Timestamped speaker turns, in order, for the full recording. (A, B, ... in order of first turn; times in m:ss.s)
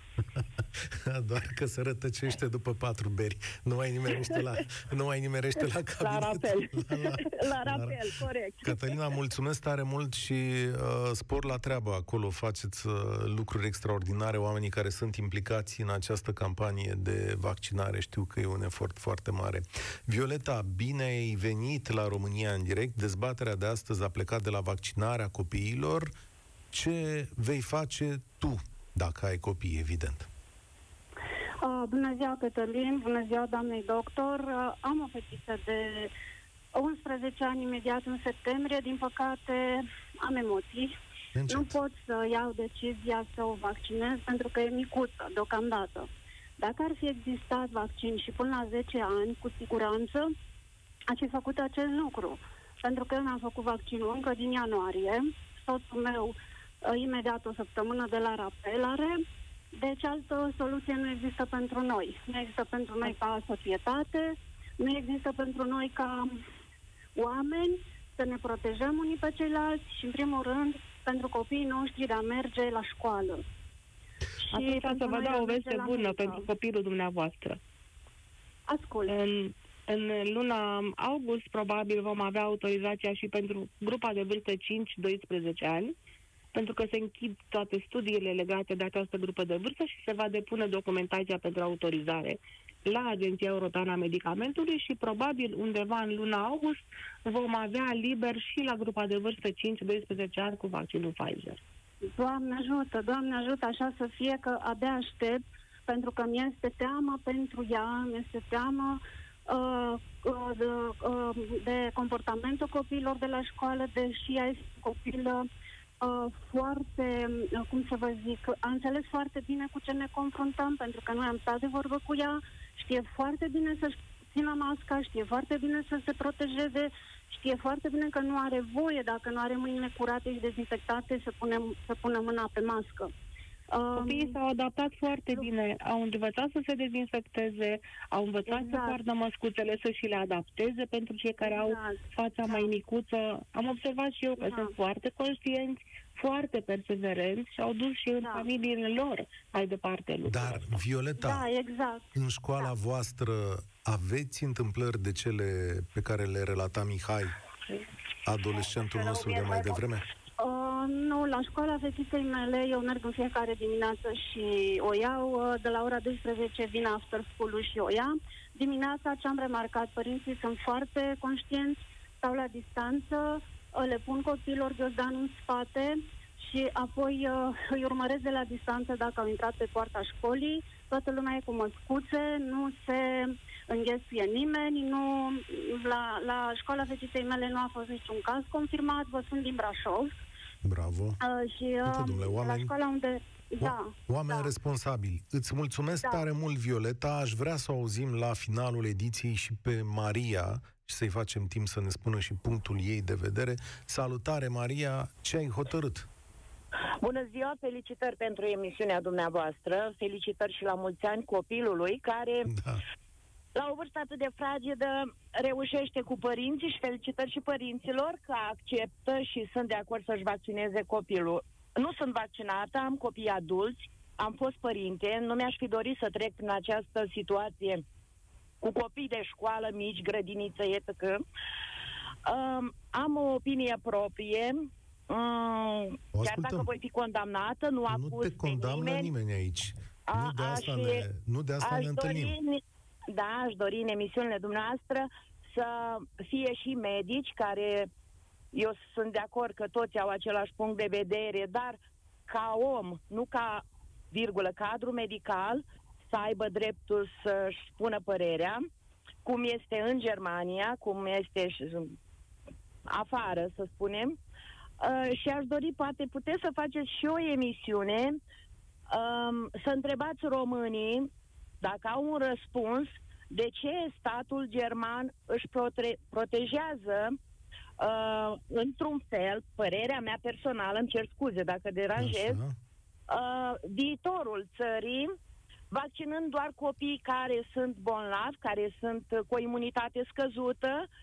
0:00.4-0:08.0 A
0:04.1-0:04.6 B
0:06.0-0:09.0 B
0:08.6-0:26.1 A
0:26.7-0:30.3 A
0:31.6-0:36.1 C
0:36.8-0:40.9 C
0:41.3-0:41.8 A
0:41.5-0:50.3 C
0:51.1-0:59.2 C
0:59.8-1:06.3 C
1:07.2-1:13.4 C
1:14.4-1:16.4 C
1:14.5-1:17.6 D
1:18.7-1:19.1 C
1:19.0-1:25.9 D
1:26.5-1:41.6 D
1:42.2-1:55.4 C
1:56.0-2:13.1 C
2:13.7-2:14.4 C
2:13.9-2:30.6 D
2:18.5-2:19.0 C
2:21.4-2:22.7 C
2:24.4-2:24.7 C
2:28.2-2:28.5 C
2:30.3-2:31.5 A
2:31.2-2:32.1 C
2:32.1-2:37.3 A
2:38.2-2:40.0 A
2:39.2-2:39.6 E
2:40.4-3:10.1 C
3:10.6-3:11.2 A
3:11.2-3:14.5 C
3:11.8-3:12.7 A
3:13.6-3:26.1 A
3:16.0-3:16.2 C
3:27.0-3:32.5 E
3:32.5-3:32.8 A
3:33.5-3:47.8 E
3:48.6-3:51.2 E
3:52.2-3:59.1 E
3:56.1-3:56.7 A
3:57.9-4:02.4 A
4:00.1-4:01.1 E
4:01.6-4:07.9 E
4:08.5-4:18.6 E
4:19.2-4:22.0 E
4:22.9-4:24.2 E
4:24.8-4:28.2 E
4:28.9-4:37.2 E
4:37.8-4:42.4 E
4:42.0-4:42.6 A
4:43.1-4:45.2 E
4:45.7-4:50.9 E